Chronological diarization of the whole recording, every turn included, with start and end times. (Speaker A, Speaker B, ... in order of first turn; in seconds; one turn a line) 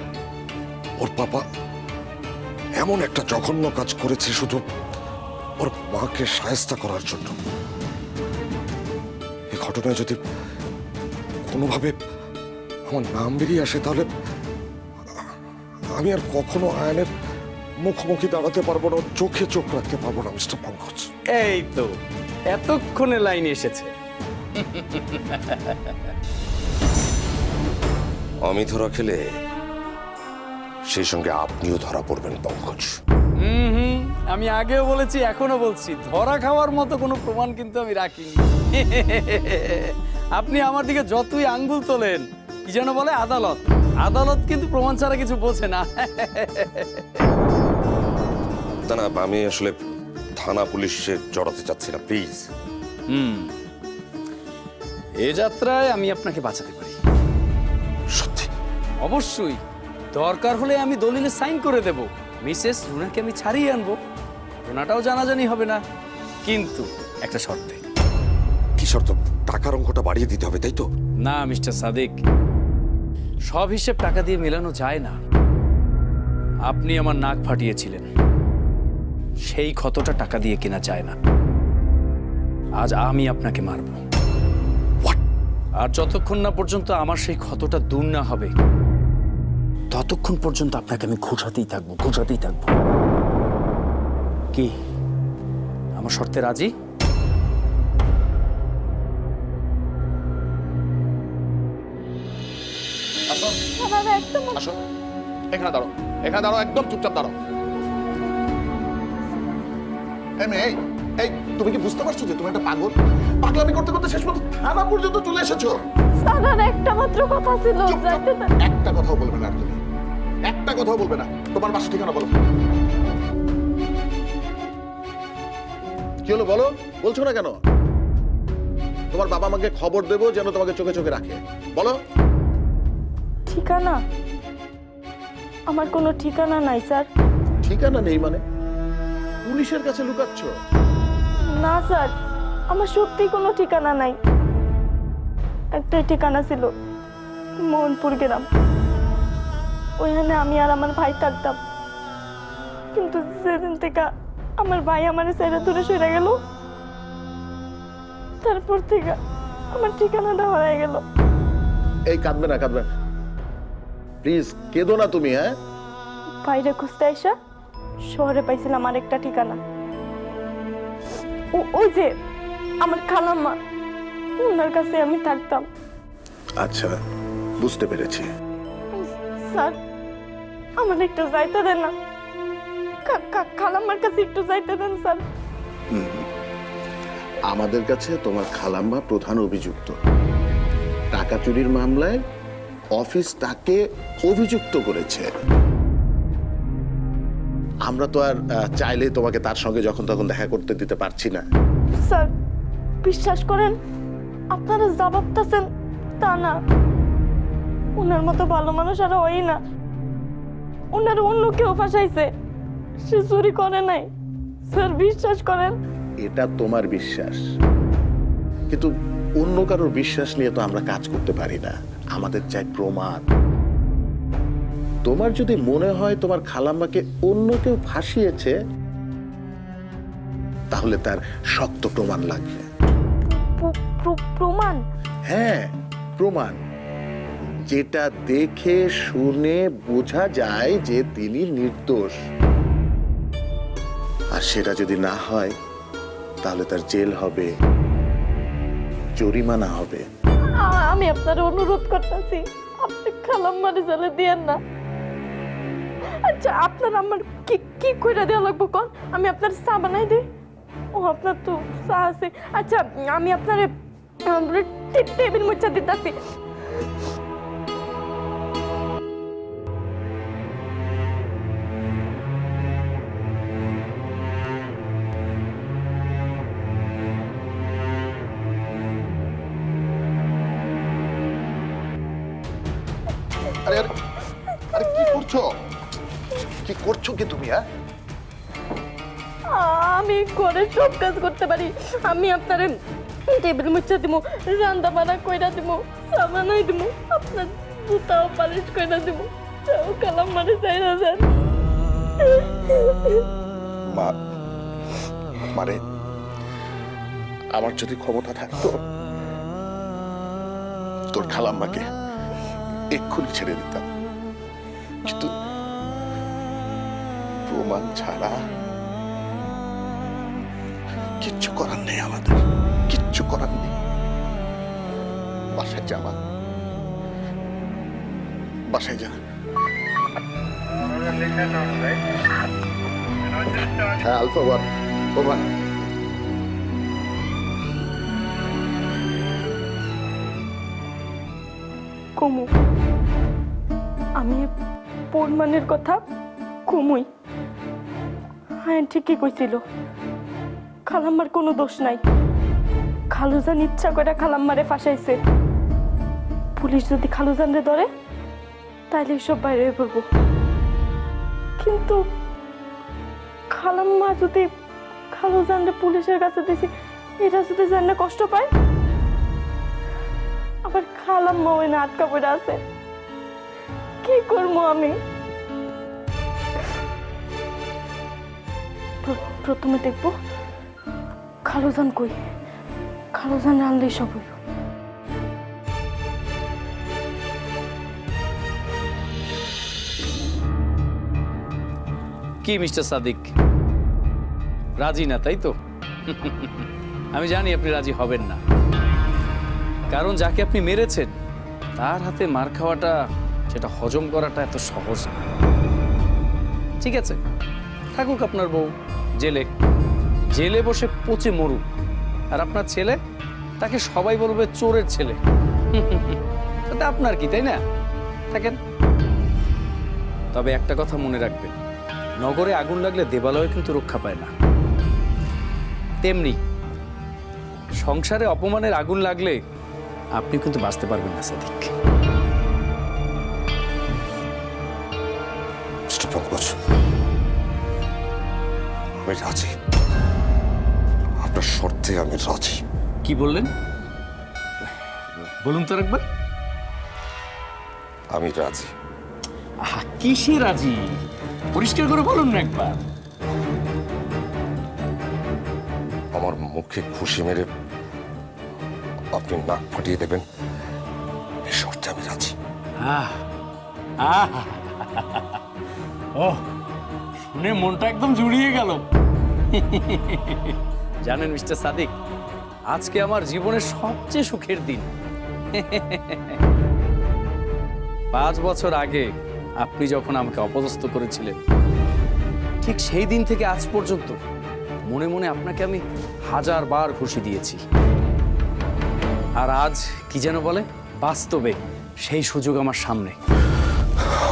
Speaker A: 1.0-1.4
Speaker A: 2.8-4.6
Speaker A: 5.6-7.4
Speaker A: 9.5-10.2
Speaker A: 11.5-12.0
Speaker A: 12.9-14.1
Speaker A: 16.0-17.1
Speaker A: 17.8-21.1
Speaker B: 21.3-21.9
Speaker B: 22.5-23.9
Speaker B: 24.6-25.9
Speaker A: 28.4-29.2
Speaker A: 30.9-33.0
Speaker B: 33.4-47.3
Speaker A: 48.9-49.8
Speaker A: 50.4-52.5
Speaker B: 53.1-53.5
Speaker B: 55.2-57.0
Speaker A: 58.1-58.5
Speaker B: 59.0-59.6
Speaker B: 60.1-64.0
Speaker B: 64.6-65.8
Speaker B: 66.5-67.8
Speaker A: 68.8-70.9
Speaker B: 71.2-72.2
Speaker B: 73.5-75.2
Speaker B: 76.7-78.1
Speaker B: 79.5-81.2
Speaker B: 82.8-84.0
Speaker B: 85.8-88.5
Speaker B: 89.9-92.7
Speaker B: 96.0-96.7
Speaker C: 103.3-103.6
Speaker D: 103.8-104.7
Speaker C: 105.5-107.3
Speaker C: 110.4-115.8
Speaker D: 116.2-118.5
Speaker C: 117.8-119.8
Speaker C: 120.5-122.3
Speaker C: 126.3-127.6
Speaker C: 129.1-132.0
Speaker D: 133.5-134.0
Speaker D: 135.7-137.1
Speaker C: 137.6-138.4
Speaker C: 139.4-140.5
Speaker D: 141.5-142.1
Speaker D: 142.7-144.2
Speaker D: 145.7-146.7
Speaker D: 147.7-148.5
Speaker D: 150.0-151.6
Speaker D: 152.9-154.1
Speaker D: 154.6-156.4
Speaker D: 158.4-159.2
Speaker D: 159.7-161.0
Speaker C: 162.1-162.9
Speaker C: 164.2-165.5
Speaker D: 166.4-167.3
Speaker D: 168.1-169.6
Speaker D: 171.6-172.1
Speaker D: 172.8-173.6
Speaker D: 174.4-175.7
Speaker C: 176.6-176.9
Speaker C: 177.6-178.3
Speaker D: 178.9-179.8
Speaker D: 180.8-181.9
Speaker D: 183.1-185.2
Speaker C: 185.9-186.2
Speaker C: 187.5-189.9
Speaker C: 191.1-192.2
Speaker C: 193.0-195.3
Speaker C: 197.9-201.4
Speaker D: 202.1-202.3
Speaker D: 203.0-203.8
Speaker D: 204.5-205.7
Speaker D: 206.2-206.6
Speaker D: 208.0-209.6
Speaker D: 210.9-212.3
Speaker D: 213.0-214.1
Speaker D: 214.7-215.8
Speaker C: 216.2-217.4
Speaker C: 218.7-223.2
Speaker C: 225.1-228.6
Speaker C: 230.7-232.7
Speaker D: 233.3-234.8
Speaker C: 235.3-236.6
Speaker C: 237.7-242.2
Speaker C: 244.4-245.6
Speaker C: 246.4-247.5
Speaker C: 249.2-250.0
Speaker D: 250.6-254.6
Speaker D: 256.2-260.2
Speaker D: 260.9-263.7
Speaker D: 264.3-266.1
Speaker C: 284.7-285.5
Speaker D: 284.8-285.1
Speaker C: 286.6-287.6
Speaker D: 289.5-292.8
Speaker D: 293.3-301.3
Speaker D: 302.2-303.2
Speaker C: 305.6-305.8
Speaker C: 307.6-308.8
Speaker C: 311.1-311.9
Speaker C: 312.9-313.9
Speaker C: 315.1-315.3
Speaker C: 317.5-318.3
Speaker C: 321.2-323.7
Speaker C: 325.6-326.1
Speaker C: 328.7-329.1
Speaker C: 333.8-334.6
Speaker C: 335.1-335.4
Speaker D: 342.2-342.5
Speaker D: 344.2-344.5
Speaker D: 345.1-346.0
Speaker D: 346.7-347.1
Speaker D: 348.6-349.6
Speaker D: 350.9-352.0
Speaker D: 353.1-355.2
Speaker D: 356.6-357.9
Speaker D: 358.9-360.1
Speaker D: 361.6-362.0
Speaker D: 363.5-364.5
Speaker D: 365.1-368.5
Speaker D: 370.6-372.6
Speaker D: 374.0-374.9
Speaker D: 379.0-380.1
Speaker D: 381.4-382.2
Speaker D: 383.1-384.4
Speaker B: 392.4-393.3
Speaker B: 394.8-395.5
Speaker B: 396.1-398.4
Speaker B: 399.9-401.1
Speaker B: 401.8-403.0
Speaker B: 403.5-405.3
Speaker B: 406.8-407.2
Speaker B: 407.9-409.5
Speaker B: 410.3-411.6
Speaker B: 412.3-413.0
Speaker B: 413.6-415.2
Speaker B: 415.7-417.6
Speaker B: 418.3-418.6
Speaker B: 420.3-421.6
Speaker B: 422.2-424.3
Speaker B: 426.0-426.4
Speaker B: 427.8-429.4
Speaker B: 430.2-431.7
Speaker A: 435.9-436.6
Speaker A: 439.0-439.5
Speaker A: 441.2-442.6
Speaker B: 443.0-443.5
Speaker B: 445.2-446.0
Speaker A: 448.1-448.7
Speaker B: 449.6-451.0
Speaker B: 451.5-452.8
Speaker A: 456.1-457.5
Speaker A: 459.1-460.2
Speaker A: 461.5-462.4
Speaker B: 462.8-463.2
Speaker B: 464.0-465.4
Speaker B: 466.2-466.5
Speaker B: 467.3-468.8
Speaker B: 469.5-471.9
Speaker B: 472.7-474.9
Speaker B: 475.5-476.4
Speaker B: 478.1-481.4
Speaker B: 482.6-484.2
Speaker B: 484.9-487.6
Speaker B: 489.4-493.2